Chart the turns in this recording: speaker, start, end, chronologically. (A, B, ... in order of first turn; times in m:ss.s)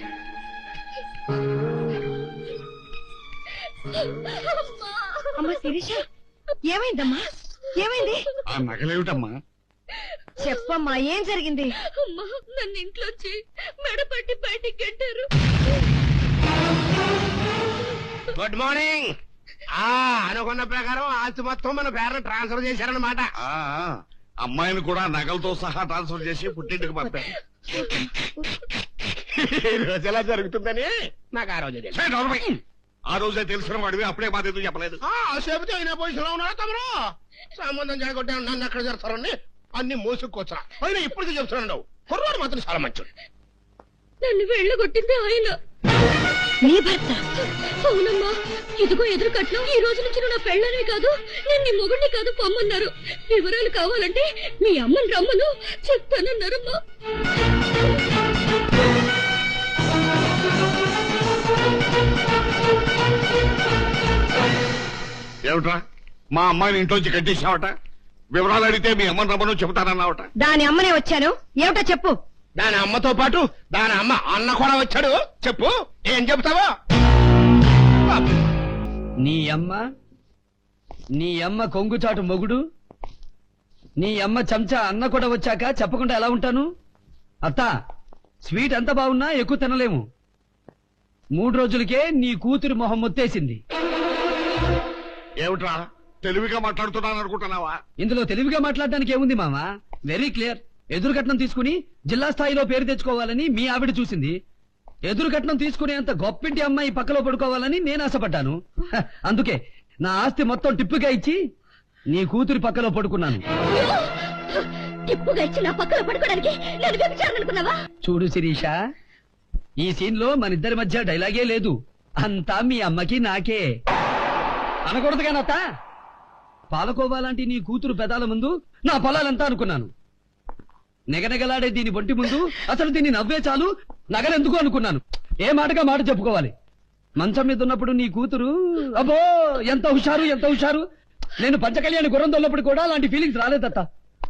0:04.0-0:05.6 A
0:05.4-0:06.0 B
0:06.7-0:07.2 B
0:07.8-0:08.2 B
0:08.5-0:09.3 C
0:10.4-0:11.6 B
0:11.8-0:15.3 A
0:18.4-0:19.1 D
0:19.8-0:23.3 D
0:23.4-0:27.4 C
0:29.3-0:32.0 D
0:31.9-0:35.0 C
0:35.0-0:36.9 D
0:37.5-0:43.1 D
0:44.2-0:45.5 A
0:46.6-0:47.2 B
0:47.8-0:56.8 A
1:05.5-1:05.8 C
1:06.3-1:07.7 C
1:08.3-1:10.3 C
1:10.4-1:12.1 B
1:12.6-1:16.7 D
1:18.1-1:18.4 D
1:19.2-1:19.8 E
1:21.2-1:22.6 E
1:24.0-1:26.7 E
1:27.4-1:27.7 E
1:28.4-1:30.0 E
1:31.4-1:33.6 E
1:35.4-1:37.8 C
1:38.0-1:44.4 E
1:45.1-1:51.4 E
1:52.1-1:53.4 E
1:53.7-1:57.7 A
1:58.0-1:58.8 E
1:59.8-2:03.7 E
2:04.8-2:05.6 E
2:06.7-2:09.9 E
2:11.1-2:16.5 E
2:17.2-2:20.8 E
2:21.4-2:23.8 E